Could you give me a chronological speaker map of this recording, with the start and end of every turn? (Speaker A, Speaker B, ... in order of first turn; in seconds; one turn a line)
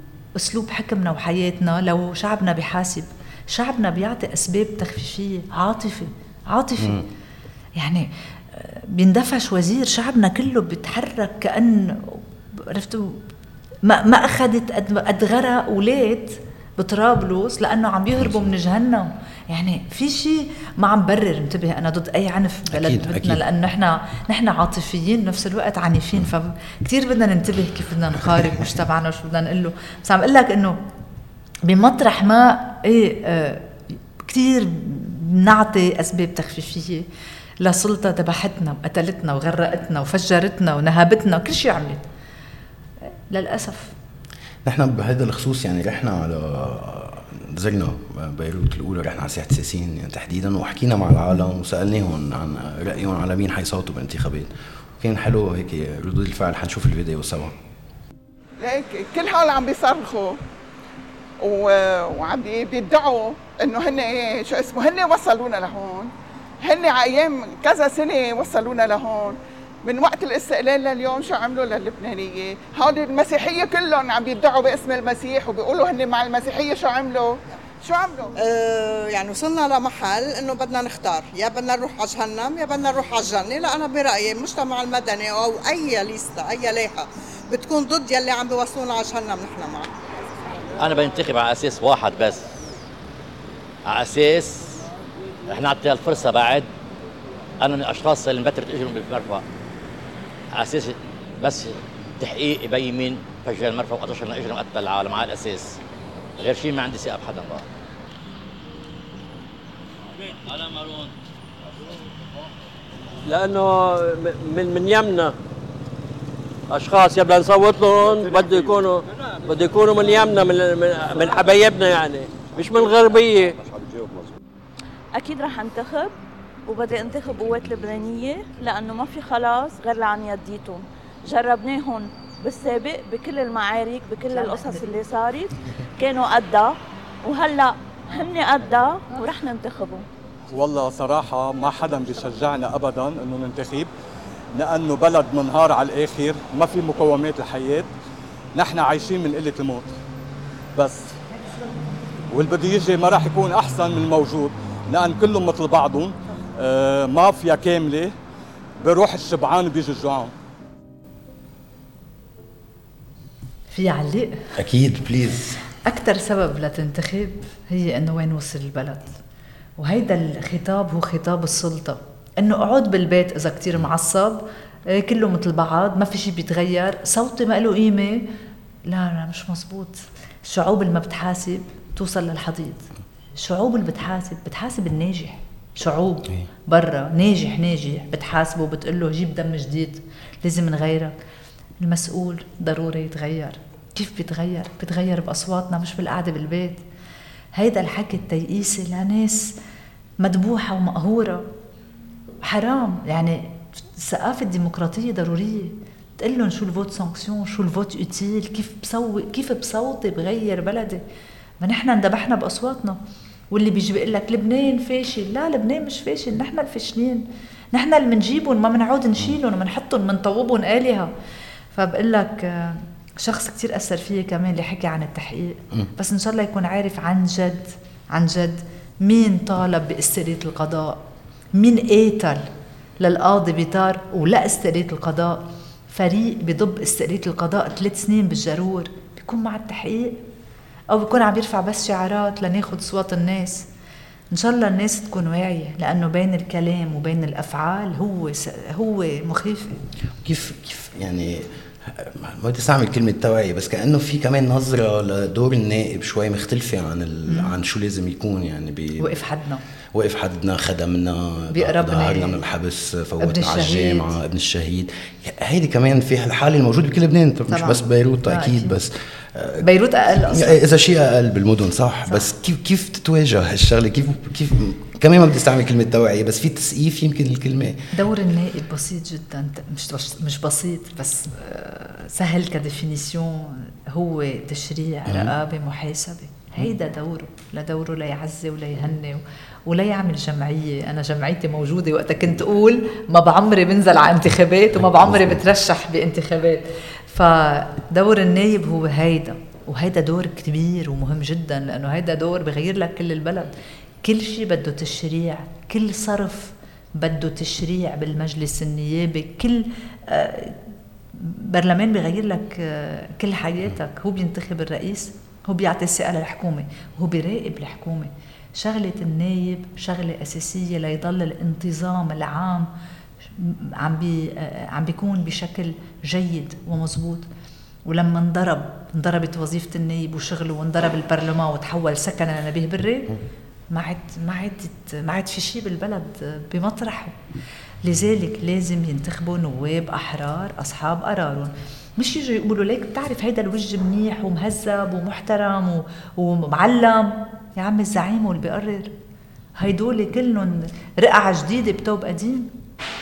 Speaker A: 0.4-7.1
Speaker B: 6.8-7.0
Speaker A: 7.8-13.2
Speaker A: 13.8-30.8
Speaker B: 18.2-18.5
Speaker B: 22.7-23.4
Speaker A: 31.7-33.7
Speaker A: 34.2-37.1
Speaker A: 37.6-42.0
Speaker A: 43.3-44.0
Speaker B: 44.6-57.6
Speaker C: 58.6-60.4
Speaker C: 61.4-66.1
Speaker C: 66.6-78.3
Speaker D: 78.4-89.9
Speaker E: 90.8-92.5
Speaker E: 93.9-94.8
Speaker E: 95.5-96.7
Speaker E: 97.6-99.4
Speaker E: 100.5-105.8
Speaker E: 106.4-107.7
Speaker F: 113.3-115.3
Speaker F: 116.7-123.7
Speaker G: 125.2-126.1
Speaker G: 126.7-140.1
Speaker A: 134.3-135.0
Speaker H: 140.5-143.9
Speaker H: 144.6-147.9
Speaker H: 148.6-149.9
Speaker H: 150.8-151.1
Speaker H: 152.3-158.1
Speaker H: 158.8-160.3
Speaker A: 163.7-164.5
Speaker B: 164.6-165.6
Speaker A: 165.9-169.2
Speaker A: 169.8-178.3
Speaker A: 178.9-191.1
Speaker A: 191.8-196.8
Speaker A: 197.6-199.5
Speaker A: 200.2-201.5
Speaker A: 202.4-211.0
Speaker A: 211.6-213.0
Speaker A: 213.5-221.1
Speaker A: 221.7-231.0
Speaker A: 231.6-232.5
Speaker A: 233.0-240.2
Speaker A: 240.9-243.7
Speaker A: 244.3-249.7
Speaker B: 250.2-259.2
Speaker A: 257.3-257.5
Speaker A: 259.0-259.6
Speaker B: 259.9-277.9
Speaker A: 261.5-262.4
Speaker A: 263.2-264.1
Speaker A: 267.5-268.7
Speaker A: 269.6-270.6
Speaker A: 277.9-303.5
Speaker B: 294.9-295.4
Speaker A: 304.0-310.6
Speaker A: 311.1-322.7
Speaker A: 323.4-327.3
Speaker A: 327.9-333.2
Speaker A: 333.7-337.1
Speaker A: 337.8-348.9
Speaker A: 349.6-352.5